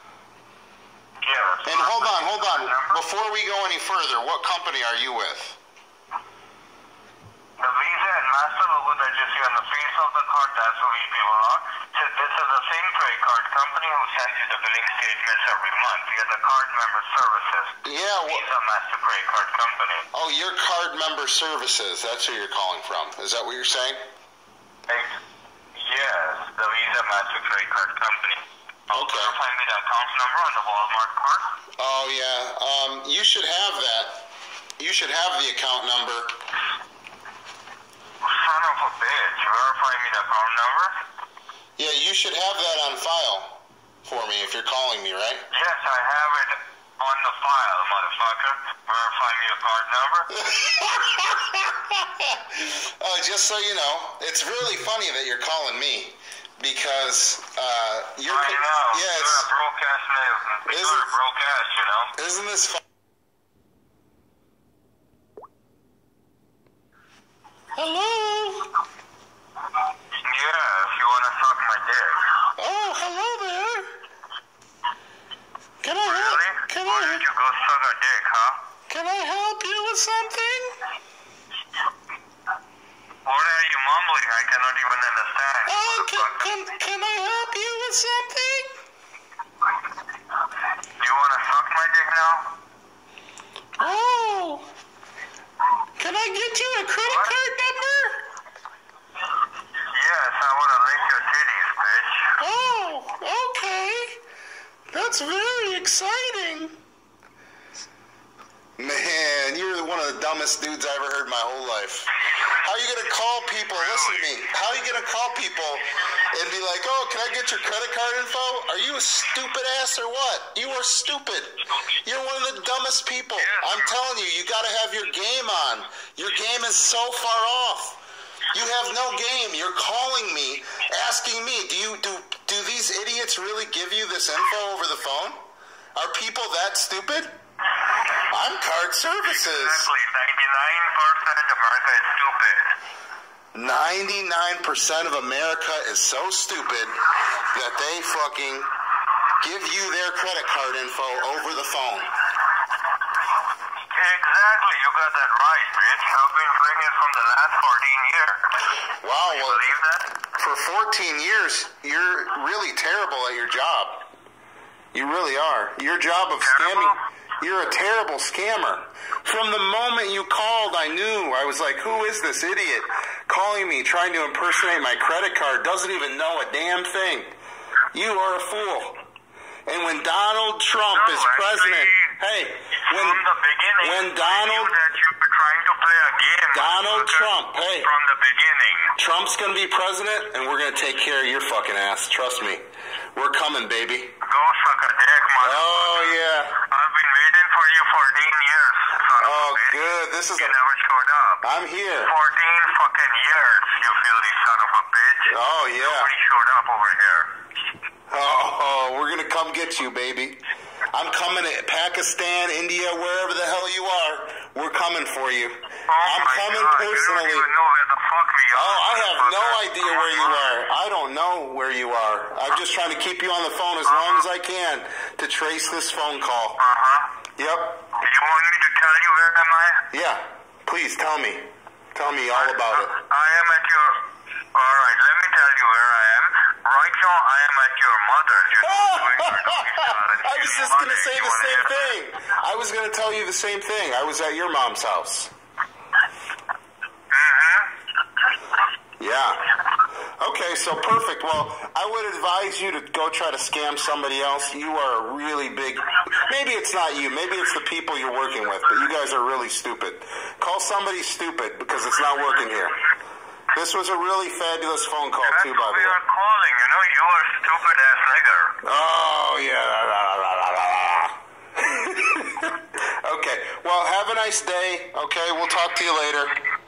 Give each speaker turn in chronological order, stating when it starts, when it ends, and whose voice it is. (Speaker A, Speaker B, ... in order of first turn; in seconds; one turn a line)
Speaker A: 1.2-3.0
Speaker B: 1.6-5.6
Speaker A: 7.6-20.1
Speaker B: 17.8-18.4
Speaker B: 20.1-24.0
Speaker A: 24.9-25.1
Speaker A: 25.8-31.5
Speaker B: 28.9-29.4
Speaker B: 31.8-34.3
Speaker B: 34.8-36.4
Speaker A: 38.2-40.9
Speaker B: 41.8-45.5
Speaker A: 45.5-50.3
Speaker B: 50.3-59.5
Speaker A: 58.3-62.2
Speaker B: 60.7-61.1
Speaker B: 62.2-62.8
Speaker B: 67.7-68.7
Speaker A: 70.2-72.3
Speaker B: 72.6-73.9
Speaker B: 75.8-77.2
Speaker A: 76.0-78.6
Speaker B: 78.9-80.7
Speaker A: 83.2-86.6
Speaker B: 85.7-88.7
Speaker A: 91.0-92.5
Speaker B: 93.8-94.7
Speaker B: 96.0-98.2
Speaker A: 97.0-97.4
Speaker A: 99.9-102.3
Speaker B: 102.4-104.2
Speaker B: 104.9-106.8
Speaker B: 108.8-128.0
Speaker A: 113.7-114.3
Speaker A: 123.3-124.0
Speaker B: 128.5-135.4
Speaker B: 135.9-137.3
Speaker B: 138.2-139.9
Speaker A: 139.2-142.7
Speaker B: 143.5-147.0
Speaker B: 147.5-148.7
Speaker B: 149.4-152.1
Speaker A: 153.9-158.4
Speaker B: 159.0-159.6
Speaker A: 159.2-160.1
Speaker B: 160.3-164.0
Speaker B: 164.9-177.3
Speaker A: 166.4-167.0
Speaker B: 177.9-179.0
Speaker B: 179.7-183.2
Speaker A: 180.9-182.2
Speaker A: 182.8-188.9
Speaker B: 183.8-184.7
Speaker B: 186.5-187.9
Speaker B: 189.0-192.6
Speaker B: 193.1-194.1
Speaker A: 194.2-199.8
Speaker B: 195.4-196.6
Speaker B: 199.2-200.5
Speaker A: 200.3-201.4
Speaker B: 201.4-202.1
Speaker A: 202.0-207.3
Speaker B: 205.3-206.1
Speaker B: 208.1-210.4
Speaker B: 210.9-217.5
Speaker A: 215.9-220.5
Speaker B: 218.5-226.6
Speaker A: 223.8-224.2
Speaker A: 226.6-227.1
Speaker B: 227.4-227.8
Speaker A: 228.0-229.8
Speaker B: 229.9-232.9
Speaker A: 232.3-241.9
Speaker B: 238.6-245.3
Speaker A: 247.1-247.7
Speaker B: 249.0-249.4
Speaker B: 250.2-262.8
Speaker B: 263.5-266.0
Speaker A: 265.2-268.6
Speaker B: 268.6-276.3